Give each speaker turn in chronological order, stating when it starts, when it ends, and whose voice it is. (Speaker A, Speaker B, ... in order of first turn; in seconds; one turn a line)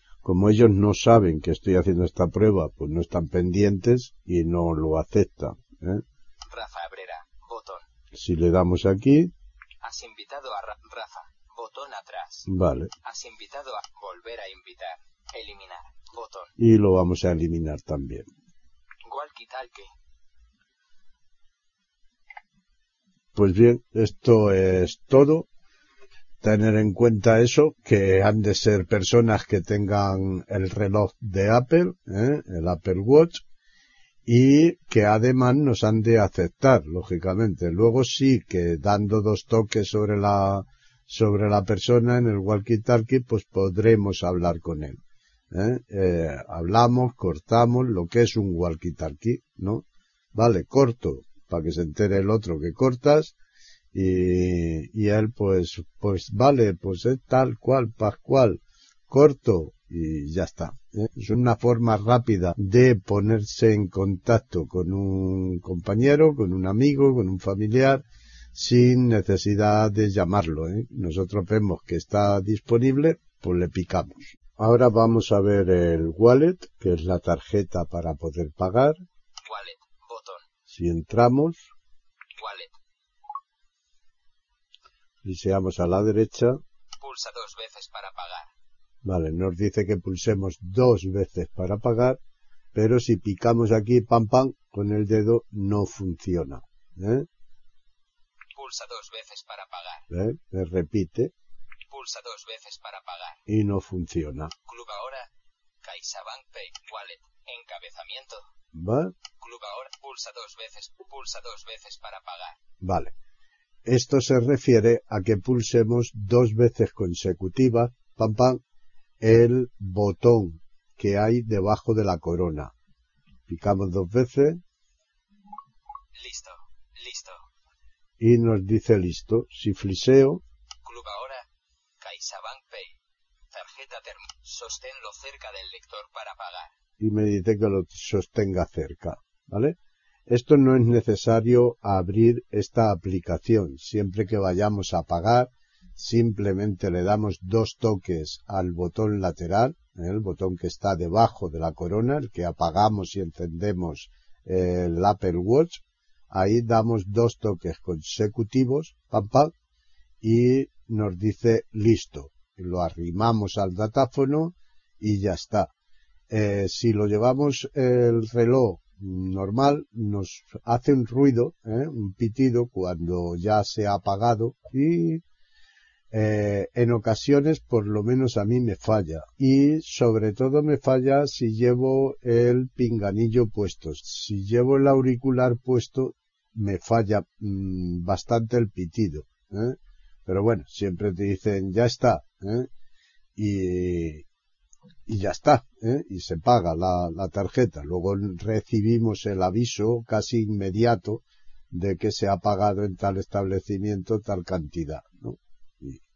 Speaker A: 0.2-6.0
Speaker B: 6.5-7.9
Speaker A: 8.1-9.3
Speaker B: 9.8-12.5
Speaker A: 12.5-12.9
Speaker B: 13.0-16.5
Speaker A: 16.6-18.3
Speaker B: 19.1-19.9
Speaker A: 23.4-25.5
Speaker A: 26.4-33.4
Speaker A: 34.3-45.0
Speaker A: 45.5-53.3
Speaker A: 53.9-79.0
Speaker B: 79.5-80.5
Speaker A: 80.7-81.7
Speaker B: 82.4-82.8
Speaker A: 85.2-86.6
Speaker B: 87.0-88.5
Speaker A: 89.0-92.2
Speaker A: 92.7-97.3
Speaker B: 98.5-100.1
Speaker A: 100.1-101.3
Speaker B: 101.9-103.4
Speaker A: 103.5-104.5
Speaker B: 104.7-105.3
Speaker B: 105.8-108.5
Speaker A: 108.7-109.1
Speaker B: 109.4-112.6
Speaker A: 112.8-113.1
Speaker A: 113.9-118.6
Speaker A: 119.2-122.7
Speaker A: 123.5-124.6
Speaker B: 126.2-127.5
Speaker A: 128.2-130.4
Speaker B: 130.8-131.4
Speaker B: 132.0-133.0
Speaker B: 133.5-136.7
Speaker A: 137.0-159.5
Speaker A: 160.2-165.7
Speaker A: 166.3-175.2
Speaker A: 176.1-192.7
Speaker A: 193.4-194.2
Speaker A: 195.1-206.0